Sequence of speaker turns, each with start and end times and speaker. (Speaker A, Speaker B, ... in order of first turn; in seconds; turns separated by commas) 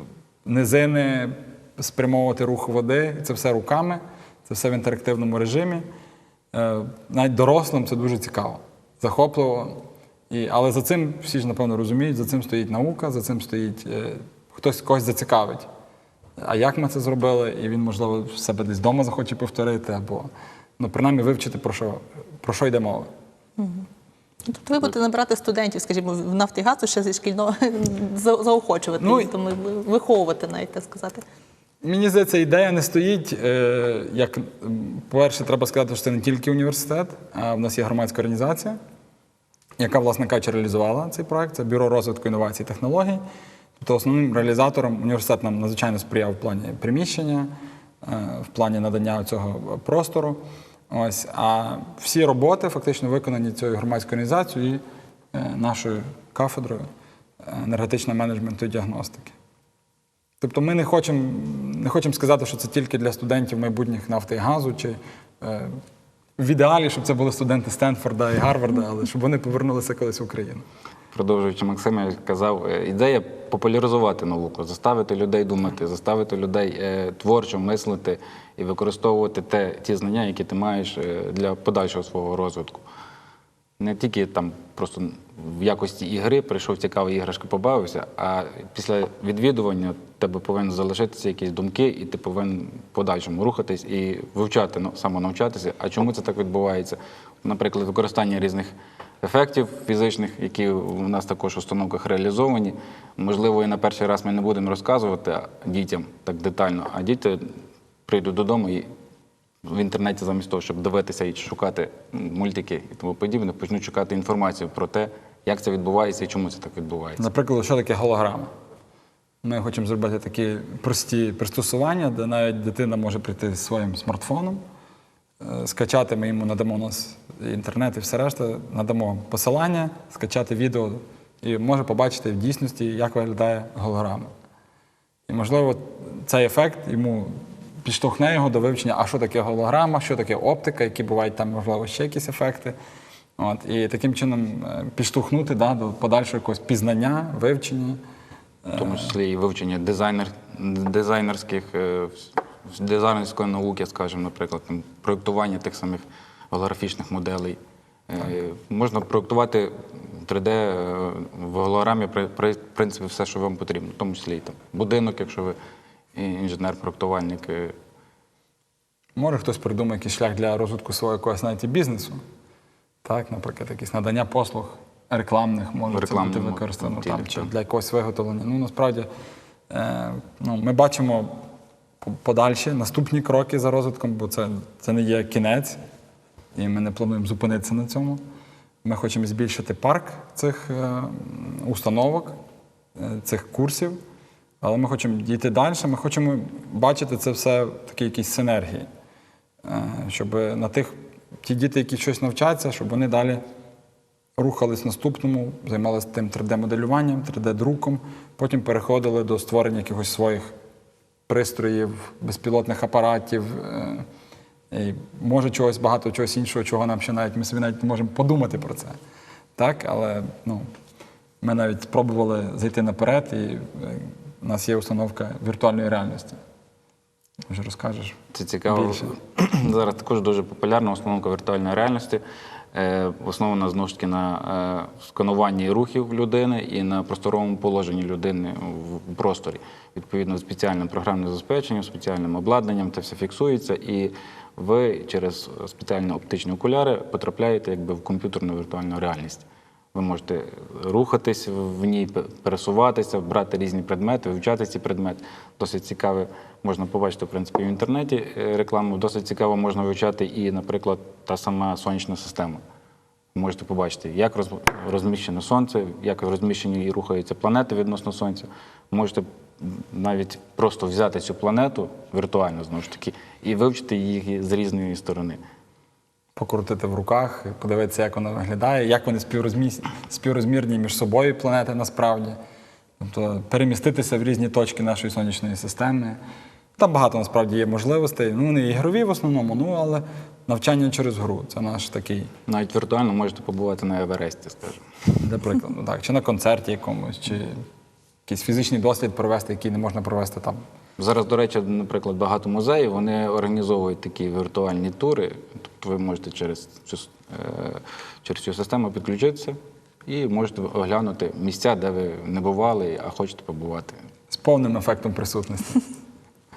Speaker A: 0.5-5.8, Speaker A: 6.5-15.7, Speaker A: 16.4-23.1, Speaker B: 23.6-23.9, Speaker B: 24.5-31.2, Speaker A: 29.0-29.3, Speaker A: 31.8-38.8, Speaker A: 39.8-43.2, Speaker A: 43.8-47.5, Speaker A: 48.0-54.8, Speaker A: 55.3-56.9, Speaker A: 57.4-59.4, Speaker A: 60.4-65.8, Speaker A: 66.4-70.7, Speaker C: 71.1-82.8, Speaker C: 83.8-108.9, Speaker C: 109.7-117.2, Speaker A: 117.2-118.5, Speaker A: 119.4-124.6, Speaker A: 125.4-134.3, Speaker A: 135.3-142.8, Speaker A: 143.4-148.0, Speaker A: 148.7-149.1, Speaker C: 148.8-165.6, Speaker C: 166.2-167.8, Speaker A: 169.2-172.2, Speaker A: 173.0-179.1, Speaker C: 175.9-177.5, Speaker A: 179.7-181.4, Speaker A: 182.0-185.8, Speaker A: 186.6-188.2, Speaker A: 188.8-192.4, Speaker A: 193.0-194.0, Speaker A: 194.6-198.9, Speaker A: 199.6-203.4, Speaker A: 204.4-210.5, Speaker A: 211.3-214.1, Speaker A: 214.7-219.0, Speaker A: 219.6-220.7, Speaker A: 221.4-226.4, Speaker A: 227.5-229.1, Speaker C: 228.3-232.2, Speaker C: 232.7-262.6, Speaker C: 263.3-275.4, Speaker A: 276.4-282.4, Speaker A: 283.0-286.2, Speaker A: 286.8-292.3, Speaker C: 292.5-294.9, Speaker A: 295.2-297.6, Speaker A: 298.3-300.6, Speaker C: 301.0-314.0, Speaker A: 314.3-315.8